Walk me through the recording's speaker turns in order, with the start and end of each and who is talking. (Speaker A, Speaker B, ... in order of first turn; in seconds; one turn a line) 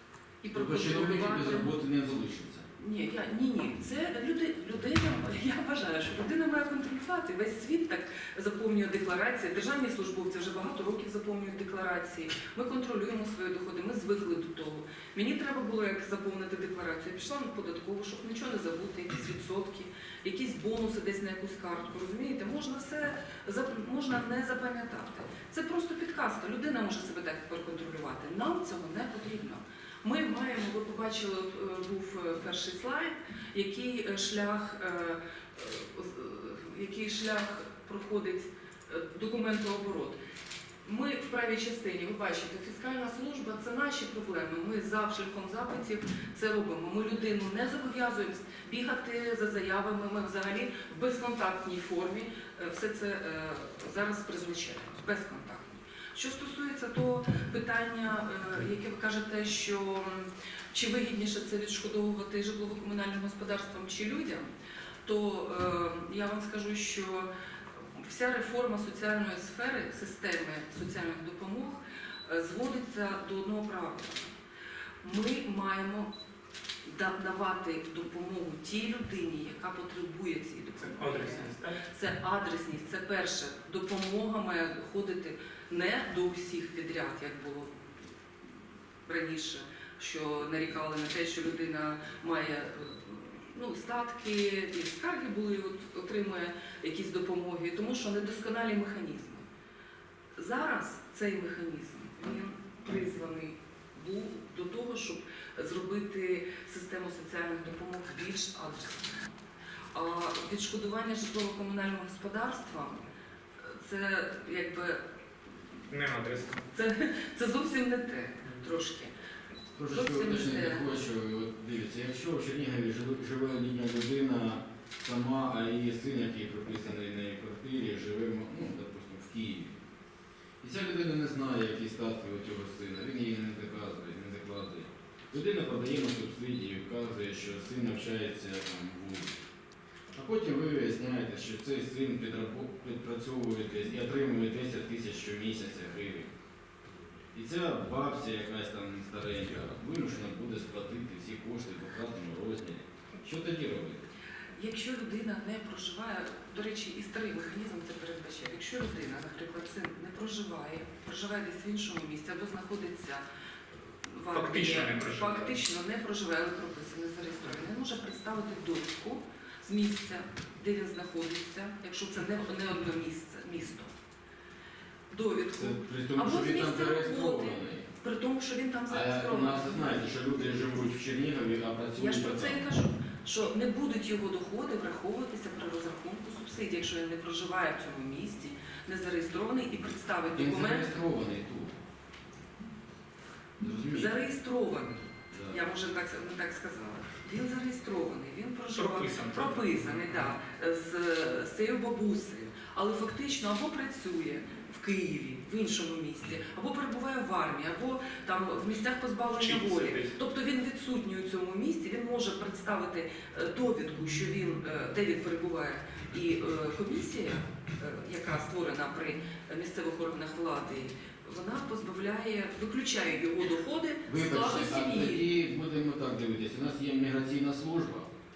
Speaker A: 0.4-1.7
Speaker B: 0.5-2.6
Speaker A: 2.8-40.2
Speaker A: 40.8-64.5
Speaker A: 65.0-67.3
Speaker A: 67.9-74.3
Speaker A: 75.0-76.1
Speaker A: 76.8-87.8
Speaker C: 80.9-81.8
Speaker A: 89.0-99.4
Speaker A: 100.4-109.3
Speaker A: 109.9-113.0
Speaker A: 113.6-115.0
Speaker C: 115.9-116.6
Speaker A: 116.7-119.1
Speaker B: 119.7-129.8
Speaker A: 119.9-120.8
Speaker B: 130.6-139.4
Speaker B: 140.1-146.3
Speaker B: 147.3-154.0
Speaker A: 154.5-163.2
Speaker A: 164.0-173.9
Speaker C: 164.3-165.6
Speaker A: 175.1-180.0
Speaker B: 175.6-177.9
Speaker B: 178.9-182.6
Speaker A: 181.9-190.9
Speaker B: 190.3-191.7
Speaker B: 193.6-194.1
Speaker A: 193.9-225.3
Speaker B: 195.3-195.6
Speaker C: 198.7-200.3
Speaker C: 209.4-210.1
Speaker B: 224.1-228.1